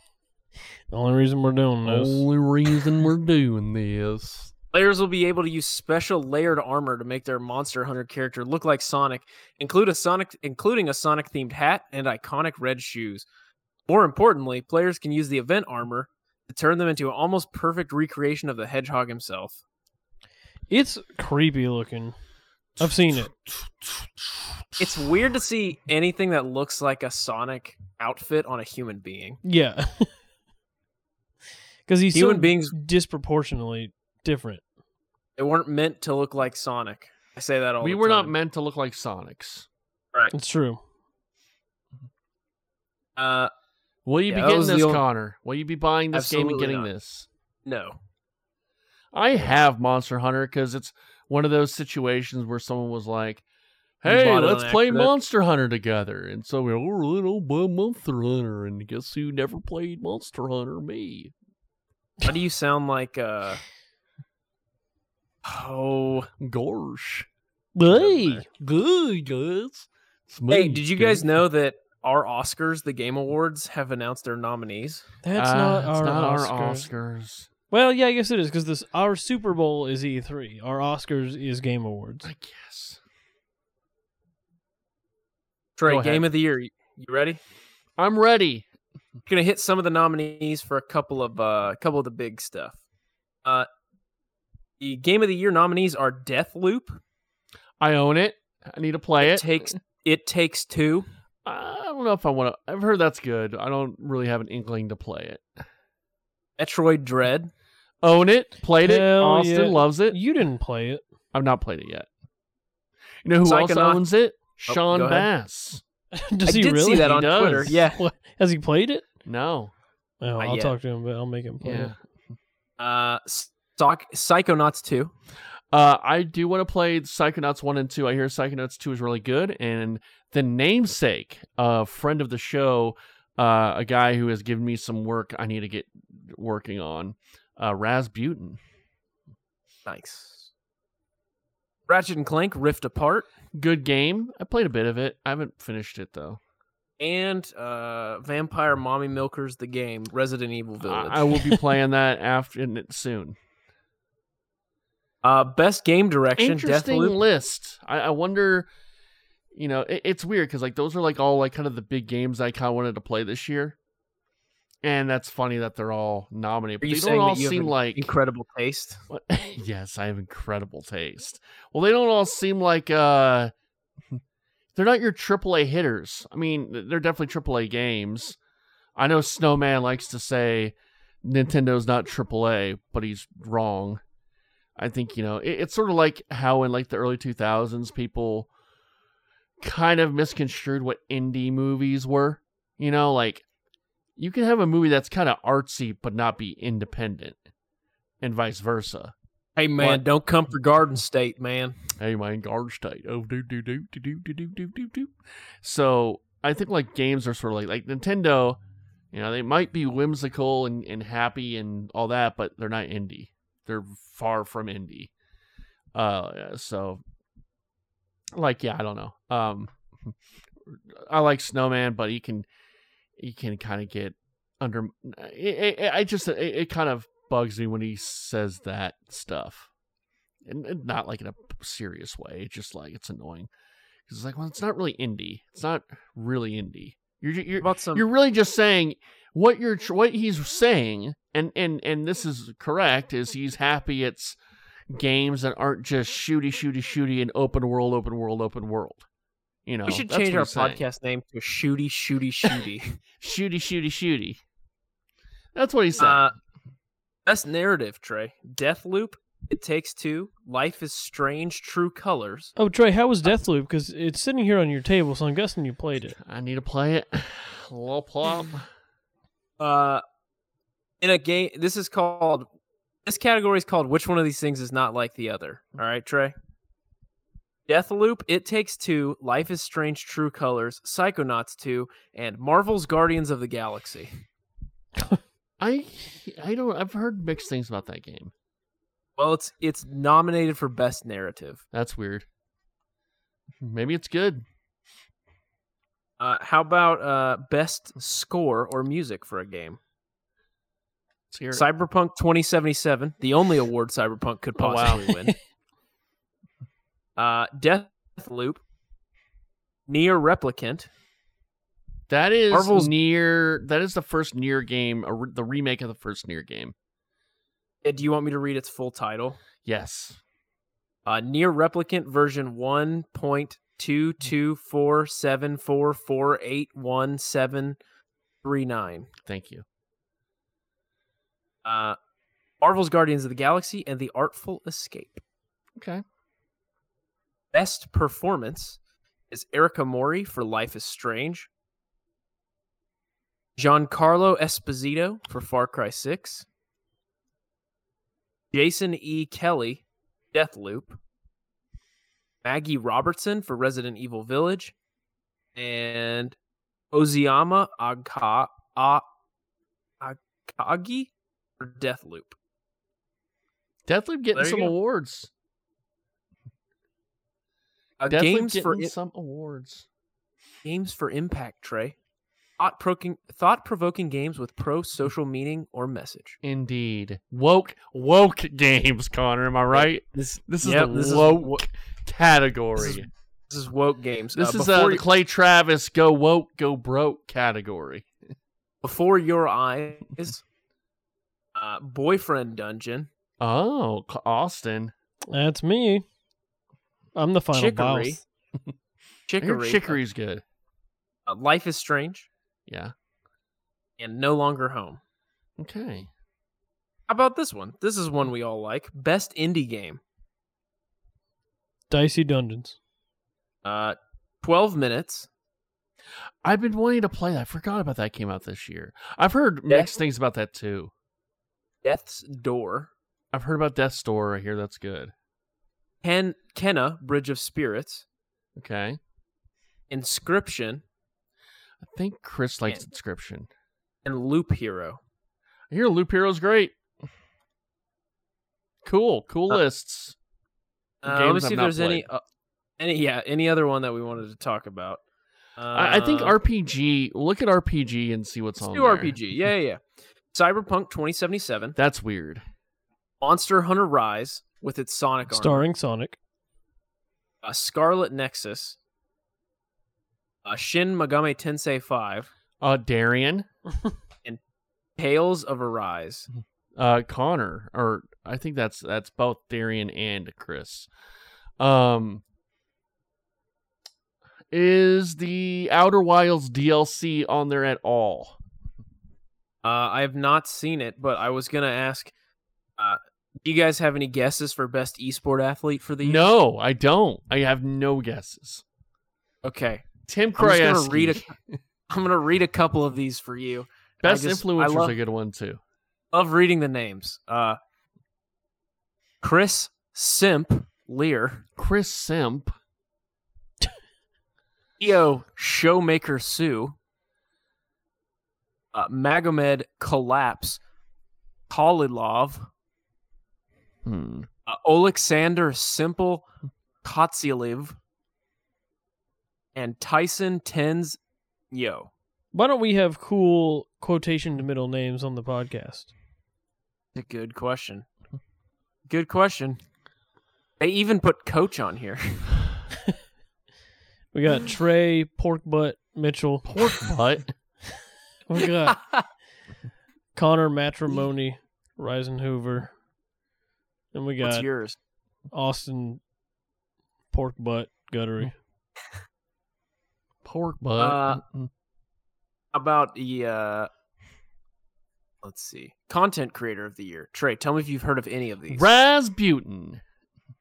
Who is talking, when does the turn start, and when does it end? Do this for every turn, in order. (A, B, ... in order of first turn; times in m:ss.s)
0:00.9-0:02.2 A
0:01.8-0:04.5 B
0:04.7-0:13.3 C
0:13.9-0:19.6 C
0:20.7-0:22.2 A
0:22.8-0:23.3 A
0:22.8-0:25.1 B
0:24.8-0:29.4 C
0:29.4-0:30.1 A
0:31.9-0:34.6 A
0:32.1-0:32.8 C
0:35.4-0:38.3 C
0:37.8-0:39.7 B
0:40.3-0:40.8 A
0:43.2-0:43.5 C
0:44.1-0:47.3 B
0:44.3-0:45.0 C
0:46.1-0:46.9 C
0:47.7-0:48.0 C
0:49.1-0:53.4 B
0:54.0-1:01.3 B
0:54.0-0:55.1 C
1:02.2-1:03.6 C
1:05.4-1:06.3 C
1:06.4-1:07.3 B
1:07.8-1:08.4 A
1:07.9-1:08.4 C
1:08.5-1:11.3 B
1:10.5-1:15.1 C
1:15.2-1:16.9 A
1:15.4-1:17.5 B
1:17.7-1:22.3 A
1:22.2-1:23.0 B
1:25.8-1:27.4 C
1:25.9-1:26.3 B
1:28.0-1:28.7 B
1:29.3-1:32.8 C
1:34.8-1:37.0 C
1:37.8-1:39.7 B
1:39.2-1:41.1 C
1:41.4-1:45.5 B
1:46.6-1:47.5 C
1:48.0-1:50.2 B
1:48.8-1:51.0 A
1:51.3-1:52.1 B
1:53.2-1:55.8 B
1:53.4-1:54.1 C
1:54.7-1:55.3 C
1:56.1-1:59.1 A
1:56.5-1:58.0 C
1:57.0-1:57.8 B
1:59.2-1:59.7 B
2:00.2-2:01.9 A
2:00.4-2:00.7 C
2:01.6-2:02.0 B
2:02.8-2:05.1 C
2:05.7-2:18.6 B
2:19.9-2:20.5 C
2:21.9-2:23.3 C
2:23.5-2:26.4 B
2:27.0-2:31.6 C
2:30.8-2:33.4 B
2:35.2-2:37.2 C
2:36.4-2:38.7 B
2:39.5-2:43.8 B
2:44.8-2:48.1 B
2:46.8-2:49.0 C
2:49.1-2:53.5 B
2:54.8-2:58.4 B
2:59.0-3:04.0 B
3:04.8-3:08.5 B
3:09.6-3:13.4 B
3:14.2-3:17.4 B
3:18.2-3:19.1 B
3:19.6-3:21.8 C
3:22.0-3:28.6 B
3:29.1-3:35.1 B
3:35.9-3:37.0 B
3:38.4-3:40.2 B
3:40.7-3:42.5 B
3:43.2-3:49.7 B
3:50.4-3:53.5 B
3:54.1-4:04.4 B
3:57.6-3:58.0 C
4:04.9-4:09.0 B
4:09.7-4:10.8 B
4:09.9-4:13.0 C
4:13.2-4:14.4 B
4:15.5-4:16.3 B
4:16.0-4:16.3 C
4:17.3-4:22.5 C
4:22.6-4:26.2 A
4:26.1-4:28.7 B
4:29.6-4:30.0 C
4:31.0-4:32.5 C
4:33.0-4:36.3 C
4:37.7-4:44.1 C
4:45.6-4:48.3 B
4:49.2-4:51.6 C
4:51.7-4:52.3 B
4:53.6-4:54.4 B
4:56.2-4:59.8 C
5:01.3-5:01.7 B
5:01.5-5:05.4 C
5:04.6-5:05.1 B
5:07.2-5:08.6 C
5:09.9-5:10.9 C
5:12.1-5:16.8 B
5:12.5-5:12.9 C
5:17.8-5:19.4 C
5:19.6-5:20.2 B
5:21.1-5:27.8 C
5:28.4-5:29.1 C
5:29.2-5:29.6 B
5:31.6-5:32.0 C
5:32.6-5:35.2 C
5:35.8-5:36.0 B
5:37.5-5:38.8 C
5:39.3-5:41.5 C
5:43.6-5:46.4 C
5:48.5-5:51.0 C
5:52.4-5:54.7 C
5:55.6-5:56.4 C
5:56.9-5:59.0 C
6:00.0-6:02.3 C
6:03.9-6:05.3 B
6:04.4-6:04.7 C
6:08.0-6:08.9 C
6:08.1-6:09.9 B
6:10.6-6:12.0 C
6:12.6-6:16.4 C
6:16.4-6:23.1 B
6:19.7-6:21.6 C
6:22.8-6:25.0 C
6:24.4-6:28.1 B
6:28.8-6:30.4 C
6:31.6-6:33.1 C
6:33.4-6:34.9 B
6:35.3-6:36.0 A
6:37.2-6:38.2 A
6:37.5-6:38.2 C
6:39.3-6:40.0 C
6:39.4-6:40.4 B
6:41.3-6:42.3 C
6:42.7-6:42.9 B
6:44.0-6:45.0 C
6:45.6-6:46.1 B
6:47.1-6:50.0 C
6:51.9-6:52.8 A
6:53.6-6:55.3 C
6:56.4-7:00.9 B
7:01.8-7:02.9 C
7:03.3-7:05.1 B
7:06.0-7:08.0 C
7:08.6-7:09.0 B
7:09.9-7:10.8 C
7:11.8-7:13.5 B
7:14.0-7:15.0 C
7:15.7-7:16.8 B
7:18.8-7:20.2 B
7:21.0-7:22.2 C
7:21.0-7:22.0 B
7:22.8-7:25.0 C
7:25.6-7:26.4 C
7:25.7-7:29.2 B
7:28.6-7:31.8 C
7:31.8-7:32.4 B
7:33.2-7:35.6 C
7:35.3-7:36.2 A
7:37.4-7:38.8 C
7:40.4-7:42.3 C
7:42.6-7:43.5 B
7:45.0-7:46.3 C
7:46.8-7:50.9 B
7:51.6-7:52.2 B
7:54.5-7:58.4 B
7:59.6-8:02.1 C
8:02.8-8:06.3 C
8:06.0-8:08.6 B
8:09.4-8:11.3 C
8:10.1-8:11.6 B
8:11.9-8:15.0 C
8:14.0-8:15.6 B
8:16.1-8:17.6 C
8:19.2-8:21.4 C
8:21.6-8:22.6 B
8:24.8-8:26.8 C
8:28.7-8:30.6 C
8:31.5-8:32.5 C
8:33.8-8:34.3 B
8:34.5-8:36.3 C
8:36.8-8:37.8 C
8:39.6-8:41.0 C
8:41.5-8:41.9 C
8:42.3-8:45.9 A
8:47.0-8:47.9 C
8:48.9-8:49.6 C
8:50.6-8:52.3 C
8:54.1-8:56.5 A
8:56.4-8:57.3 B
8:58.3-8:58.8 A
8:58.7-8:59.0 C
9:00.1-9:02.7 A
9:03.9-9:04.5 A
9:04.2-9:04.8 C
9:05.3-9:06.0 A
9:07.1-9:08.4 A
9:10.2-9:11.5 B
9:10.8-9:11.2 C
9:12.5-9:13.7 C
9:15.2-9:18.7 C
9:18.5-9:19.8 B